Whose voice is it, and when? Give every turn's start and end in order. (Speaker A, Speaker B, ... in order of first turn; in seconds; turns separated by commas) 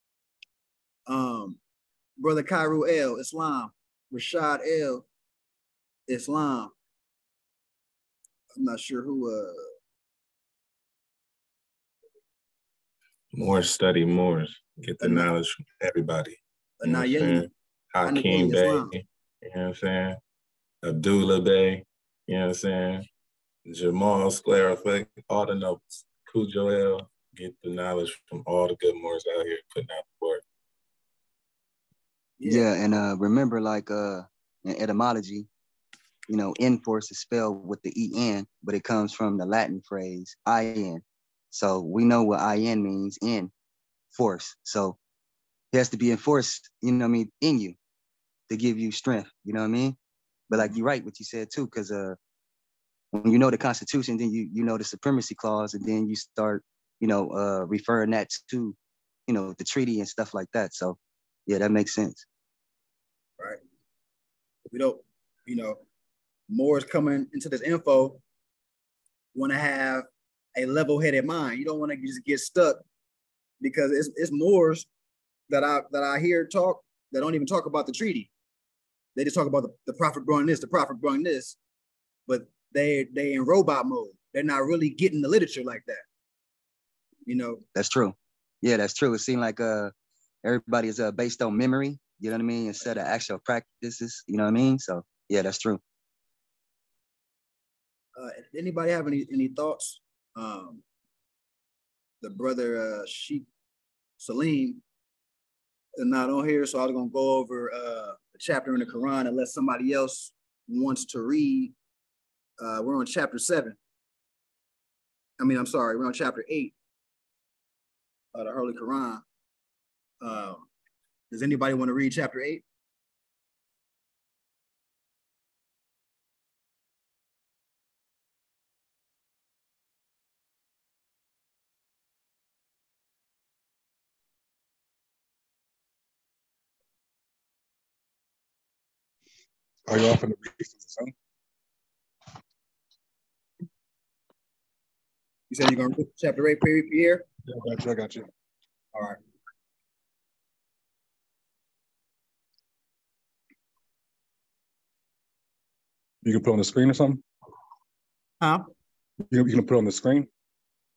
Speaker A: 1.1-1.6, Speaker A: 2.2-5.0, Speaker A: 6.1-6.7, Speaker A: 8.6-9.7, Speaker B: 13.3-20.2, Speaker A: 15.0-15.3, Speaker A: 16.8-17.5, Speaker A: 18.0-18.9, Speaker B: 20.8-23.1, Speaker B: 23.7-30.4, Speaker A: 32.4-32.7, Speaker C: 32.4-35.5, Speaker C: 36.3-43.5, Speaker C: 44.1-45.0, Speaker C: 45.7-47.8, Speaker C: 48.5-50.0, Speaker C: 50.5-52.2, Speaker C: 53.1-58.8, Speaker C: 59.3-62.2, Speaker A: 64.7-65.8, Speaker A: 66.5-68.2, Speaker A: 69.3-72.8, Speaker A: 73.6-74.9, Speaker A: 75.5-78.3, Speaker A: 79.2-81.6, Speaker A: 82.3-86.0, Speaker A: 87.2-87.6, Speaker C: 87.8-89.9, Speaker C: 90.4-95.8, Speaker A: 98.2-100.8, Speaker A: 102.2-103.4, Speaker A: 104.2-104.8, Speaker A: 106.0-111.7, Speaker A: 112.6-113.8, Speaker A: 115.4-116.7, Speaker A: 118.3-119.2, Speaker A: 120.2-120.7, Speaker A: 121.3-122.6, Speaker D: 139.9-141.1, Speaker A: 145.5-147.2, Speaker D: 147.5-148.3, Speaker A: 148.9-149.2, Speaker D: 156.2-157.2, Speaker A: 158.4-158.7, Speaker D: 159.3-160.3